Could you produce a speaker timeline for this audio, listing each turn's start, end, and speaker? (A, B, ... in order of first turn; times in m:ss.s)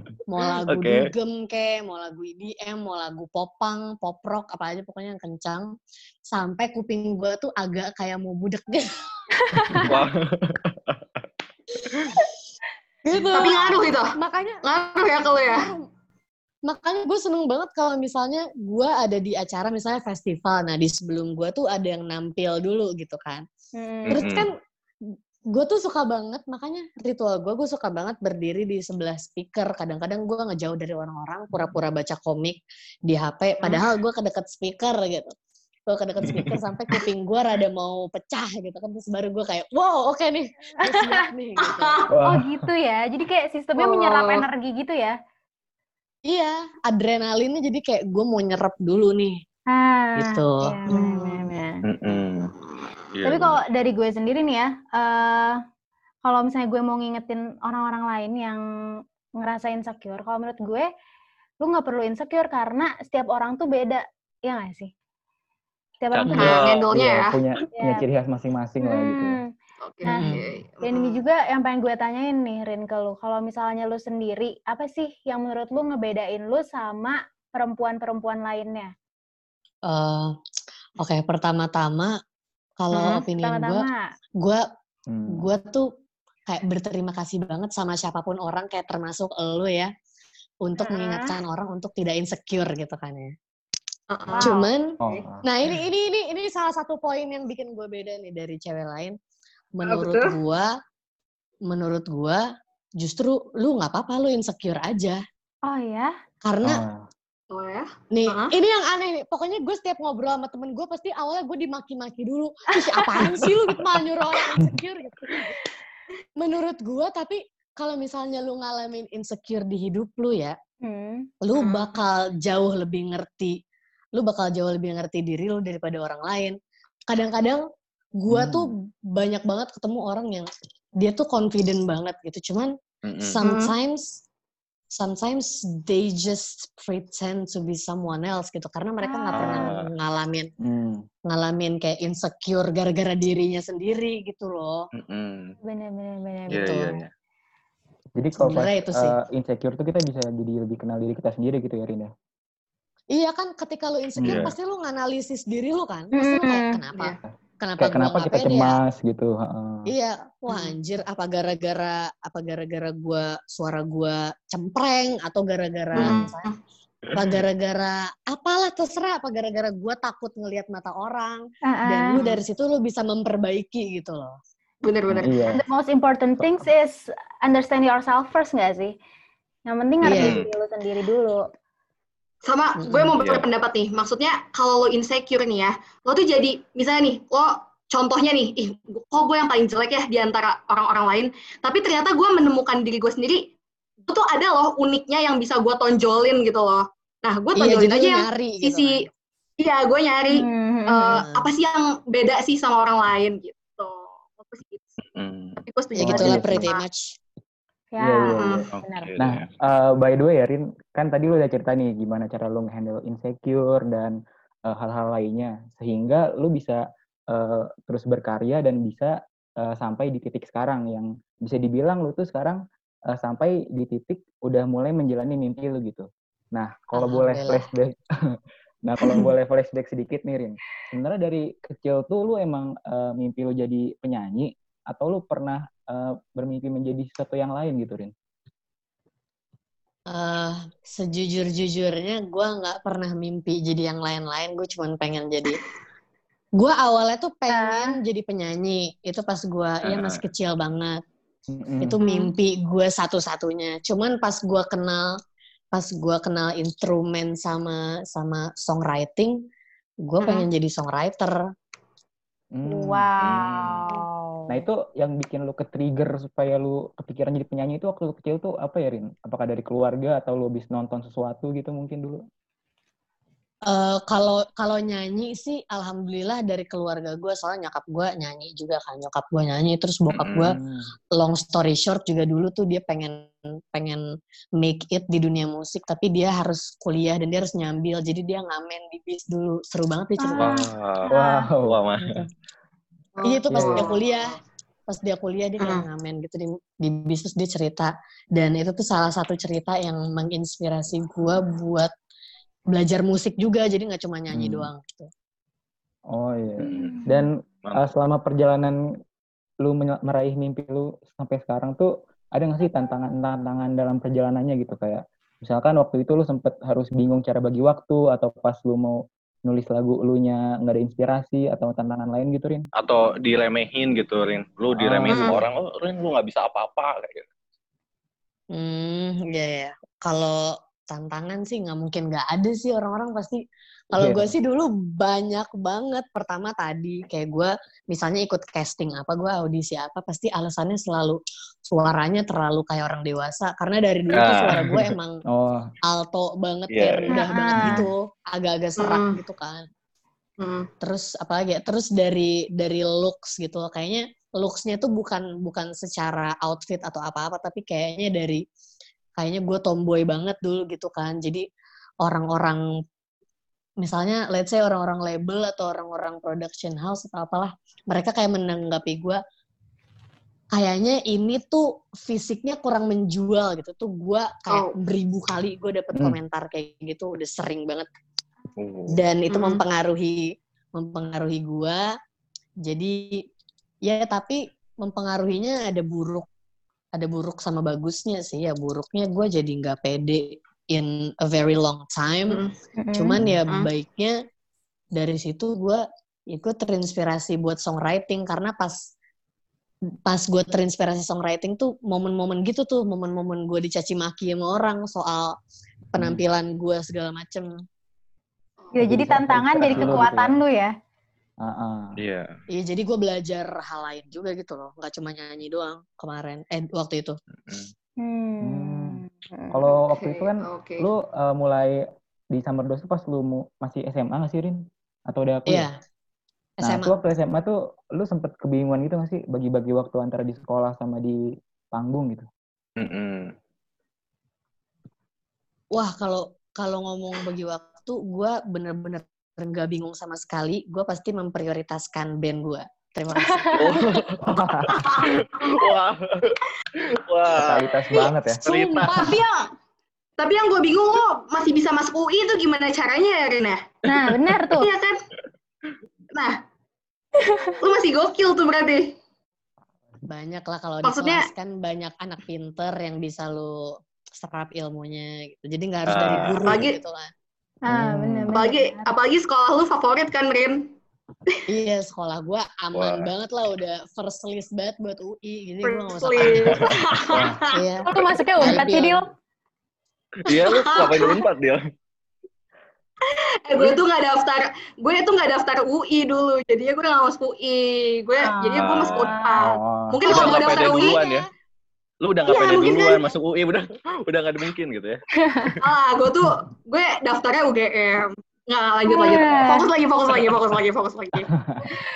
0:00.2-0:05.7 A
0:00.7-0:01.1 B
0:06.3-0:09.0 A
0:09.8-0:11.0 B
0:11.8-0:12.2 A
0:13.0-0:15.8 A
0:13.3-0:15.7 C
0:16.7-0:23.4 A
0:23.8-0:24.2 D
0:24.1-0:24.5 B
0:24.1-0:24.6 A
0:25.1-0:35.3 A
0:35.9-0:41.9 A
0:40.9-0:41.2 D
0:41.6-0:42.1 C
0:42.1-0:42.7 E
0:42.2-0:45.1 D
0:43.8-0:44.4 C
0:46.3-0:49.4 A
0:49.7-0:51.8 D
0:50.2-0:51.2 A
0:50.9-0:51.2 C
0:51.9-0:52.5 B
0:52.5-0:52.9 C
0:53.1-0:53.6 B
0:53.2-0:55.6 D
0:56.2-0:58.6 D
0:59.4-1:00.9 D
1:01.6-1:04.9 D
1:06.0-1:06.6 D
1:06.1-1:06.9 B
1:06.3-1:07.4 C
1:06.9-1:09.4 E
1:07.8-1:08.1 D
1:08.8-1:09.4 D
1:09.8-1:11.2 C
1:10.1-1:10.3 D
1:10.1-1:10.4 A
1:10.8-1:18.9 D
1:19.8-1:20.4 A
1:21.0-1:22.2 A
1:22.8-1:23.9 A
1:22.9-1:23.2 C
1:23.4-1:24.0 D
1:25.1-1:25.5 E
1:25.3-1:25.9 A
1:26.5-1:29.9 A
1:30.6-1:33.4 A
1:30.8-1:31.3 D
1:34.1-1:35.1 C
1:34.3-1:34.7 D
1:34.4-1:39.2 A
1:35.0-1:35.4 E
1:39.8-1:40.8 A
1:39.8-1:40.4 C
1:41.7-1:45.2 A
1:45.6-1:46.1 D
1:46.4-1:46.8 A
1:46.6-1:47.1 E
1:47.5-1:48.6 C
1:48.1-1:55.6 A
1:56.4-2:00.6 A
2:00.8-2:01.3 D
2:01.4-2:03.6 A
2:01.6-2:02.0 C
2:04.2-2:06.6 A
2:07.1-2:07.6 A
2:08.2-2:10.5 A
2:08.3-2:08.7 E
2:11.0-2:12.7 A
2:13.1-2:13.4 B
2:13.2-2:14.2 A
2:13.4-2:13.7 C
2:15.0-2:20.5 A
2:19.0-2:19.7 D
2:19.3-2:19.9 B
2:20.6-2:21.0 E
2:21.3-2:24.9 A
2:25.0-2:25.6 B
2:25.6-2:26.7 D
2:26.5-2:27.0 A
2:26.5-2:27.1 B
2:28.1-2:32.1 E
2:28.4-2:29.2 A
2:33.1-2:38.8 A
2:34.2-2:34.5 E
2:34.2-2:34.6 B
2:36.1-2:36.8 D
2:36.9-2:37.2 C
2:37.3-2:39.9 E
2:39.9-2:46.5 A
2:46.0-2:46.6 C
2:46.0-2:46.3 B
2:47.1-2:47.4 B
2:47.1-2:54.4 A
2:51.7-2:52.2 D
2:52.1-2:52.4 C
2:54.8-2:55.4 C
2:55.2-2:55.6 E
2:55.5-2:58.9 D
2:59.7-3:01.4 D
3:00.0-3:00.4 A
3:00.1-3:00.5 B
3:02.4-3:13.5 C
3:02.8-3:03.2 A
3:03.2-3:03.5 B
3:14.0-3:19.1 C
3:17.6-3:19.1 A
3:19.6-3:24.9 C
3:20.3-3:21.2 D
3:21.1-3:21.5 A
3:25.0-3:25.6 B
3:25.6-3:26.8 C
3:26.0-3:27.2 A
3:26.0-3:26.7 E
3:27.9-3:29.1 D
3:28.0-3:28.7 E
3:28.4-3:28.7 C
3:28.7-3:29.5 B
3:29.2-3:42.6 E
3:43.1-3:48.0 E
3:47.0-3:47.7 A
3:48.8-3:58.1 E
4:00.1-4:05.6 A
4:06.6-4:11.0 A
4:07.5-4:08.0 D
4:09.8-4:10.2 B
4:11.5-4:12.0 E
4:11.8-4:15.2 A
4:12.0-4:12.3 D
4:15.7-4:19.4 A
4:20.0-4:21.4 A
4:20.2-4:20.5 C
4:22.5-4:23.8 E
4:22.6-4:24.4 D
4:23.2-4:23.9 B
4:24.5-4:32.2 E
4:33.7-4:40.6 A
4:40.1-4:40.5 B
4:40.5-4:40.9 E
4:41.1-4:44.0 A
4:44.6-4:50.6 A
4:50.2-4:51.5 D
4:50.4-4:51.1 B
4:51.1-4:52.3 E
4:51.6-4:52.2 B
4:53.2-4:54.2 C
4:53.2-4:54.4 A
4:53.5-4:53.8 E
4:54.9-5:01.9 A
4:55.6-4:55.8 C
5:02.7-5:05.1 A
5:04.3-5:04.7 E
5:06.1-5:08.8 E
5:06.6-5:07.1 B
5:06.8-5:07.1 D
5:07.6-5:07.9 B
5:09.6-5:22.7 E
5:22.8-5:27.3 B
5:24.7-5:25.4 E
5:25.1-5:25.4 C
5:28.5-5:45.2 A
5:33.9-5:34.3 E
5:44.1-5:44.9 B
5:45.3-5:45.7 E
5:45.8-5:49.6 A
5:46.7-5:47.1 B
5:47.1-5:47.9 D
5:48.8-5:49.2 C
5:50.4-5:50.7 C
5:50.8-5:58.4 A
5:59.2-6:01.5 A
6:02.0-6:02.6 A
6:03.8-6:09.2 A
6:10.5-6:17.9 A
6:14.5-6:14.8 C
6:18.6-6:19.0 B
6:18.9-6:21.9 A
6:19.3-6:19.6 C
6:22.6-6:23.2 A
6:23.8-6:26.2 A
6:27.0-6:32.4 A
6:32.3-6:32.5 C
6:32.8-6:33.2 D
6:32.9-6:34.2 A
6:34.9-6:38.9 A
6:40.0-6:45.4 A
6:45.9-6:47.5 A
6:46.0-6:46.2 E
6:48.7-6:50.7 D
6:48.8-6:50.4 E
6:51.4-6:52.0 E
6:52.0-6:52.3 B
6:52.5-6:57.2 A
6:57.5-6:57.7 B
6:58.0-6:59.6 D
6:58.4-7:05.7 E
6:59.9-7:00.9 C
7:05.5-7:05.8 A
7:06.6-7:06.9 A
7:06.6-7:11.2 E
7:11.7-7:12.2 E
7:12.8-7:13.3 B
7:15.7-7:24.0 A
7:23.6-7:27.6 B
7:24.2-7:24.8 E
7:24.7-7:25.7 C
7:27.3-7:28.4 E
7:28.4-7:29.2 B
7:28.5-7:29.1 A
7:28.7-7:29.5 C
7:30.2-7:33.6 C
7:33.9-7:34.7 D
7:34.6-7:35.0 C
7:37.2-7:37.6 D
7:37.6-7:39.0 C
7:40.1-7:47.1 A
7:40.8-7:41.3 C
7:45.9-7:46.6 B
7:46.4-7:46.8 C
7:47.7-7:48.9 D
7:47.7-7:48.3 E
7:48.3-7:50.7 C
7:51.5-7:56.7 A
7:52.7-7:53.1 B
7:55.6-7:57.6 C
7:56.2-7:56.6 B
7:57.1-7:57.5 E
7:57.5-7:59.0 A
7:57.8-7:59.0 D
8:00.2-8:01.6 B
8:00.3-8:01.2 C
8:03.0-8:11.2 C
8:08.2-8:09.4 D
8:08.6-8:09.2 B
8:09.4-8:10.1 E
8:10.1-8:11.3 B
8:10.1-8:11.0 A
8:12.0-8:15.0 B
8:12.2-8:13.2 C
8:15.3-8:15.5 D
8:15.6-8:21.3 C
8:18.9-8:19.7 D
8:21.4-8:21.6 E